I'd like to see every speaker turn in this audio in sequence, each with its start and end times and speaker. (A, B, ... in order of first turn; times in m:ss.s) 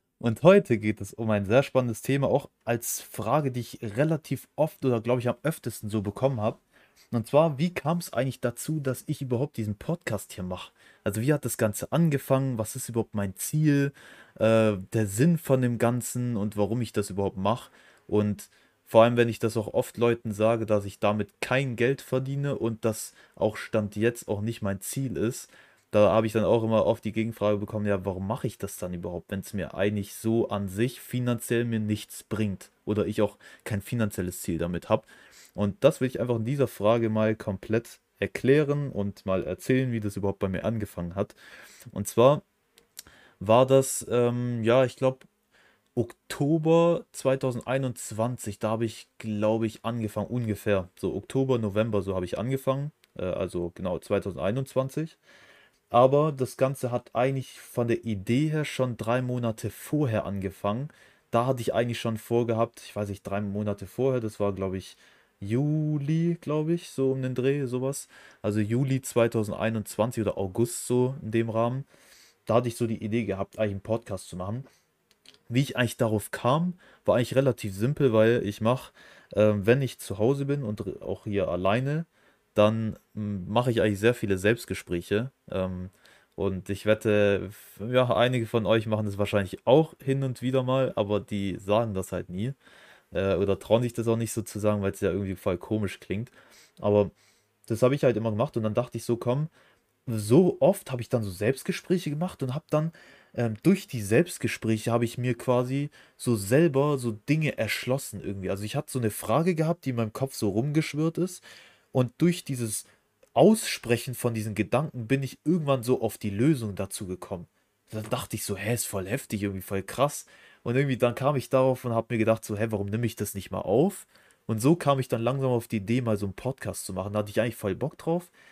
0:00.2-0:06.6 A
0:07.1-0:41.4 A
0:41.9-0:42.4 A
0:43.4-0:45.3 A
0:46.0-0:55.2 A
0:55.9-1:11.9 A
1:12.5-1:14.7 A
1:15.5-1:32.6 A
1:33.1-1:37.1 A
1:37.7-1:39.5 A
1:40.1-2:08.3 A